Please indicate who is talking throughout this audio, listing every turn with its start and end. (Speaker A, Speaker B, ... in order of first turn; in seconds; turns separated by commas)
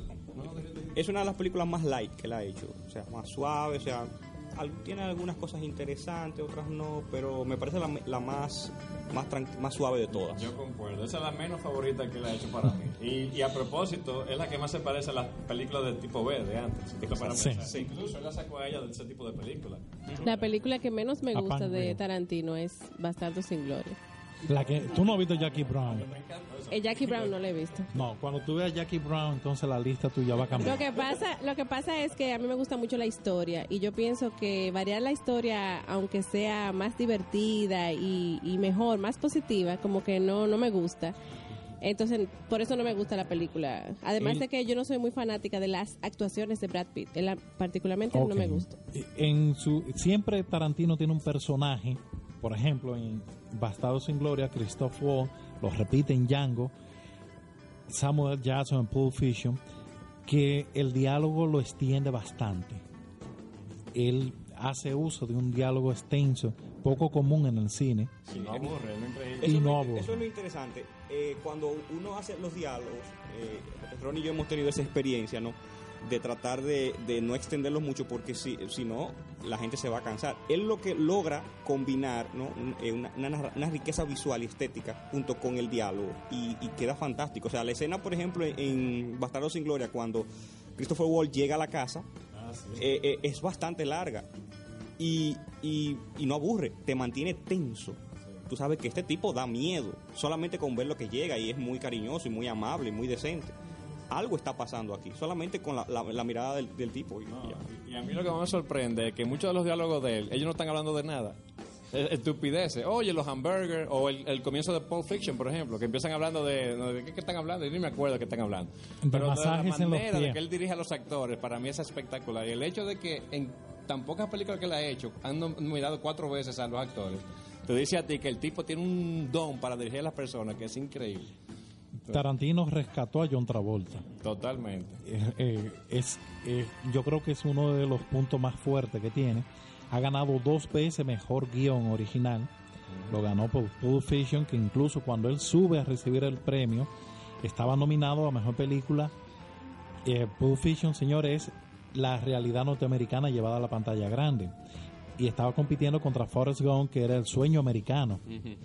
Speaker A: 0.3-1.0, Speaker B: 0.9-10.5, Speaker A: 10.1-20.5, Speaker C: 17.3-17.7, Speaker D: 20.2-24.0, Speaker C: 21.3-22.0, Speaker A: 24.4-27.4, Speaker C: 24.5-26.1, Speaker D: 26.7-27.9, Speaker C: 27.9-30.8, Speaker D: 30.6-41.1, Speaker D: 41.8-48.7, Speaker C: 48.1-56.7, Speaker C: 57.9-59.6, Speaker C: 60.2-62.8, Speaker C: 63.9-68.2, Speaker A: 68.3-69.6, Speaker C: 69.4-70.2, Speaker B: 69.4-92.0, Speaker A: 92.3-92.8, Speaker B: 92.8-94.2, Speaker B: 95.0-98.0, Speaker B: 98.5-103.5, Speaker B: 104.1-107.6, Speaker A: 107.3-111.4, Speaker A: 111.9-131.3, Speaker C: 119.0-120.4, Speaker C: 132.1-134.1, Speaker A: 134.2-135.0, Speaker C: 135.0-142.5, Speaker A: 142.9-143.2, Speaker C: 143.1-146.9, Speaker C: 147.4-149.1, Speaker C: 150.0-154.5, Speaker C: 155.2-158.2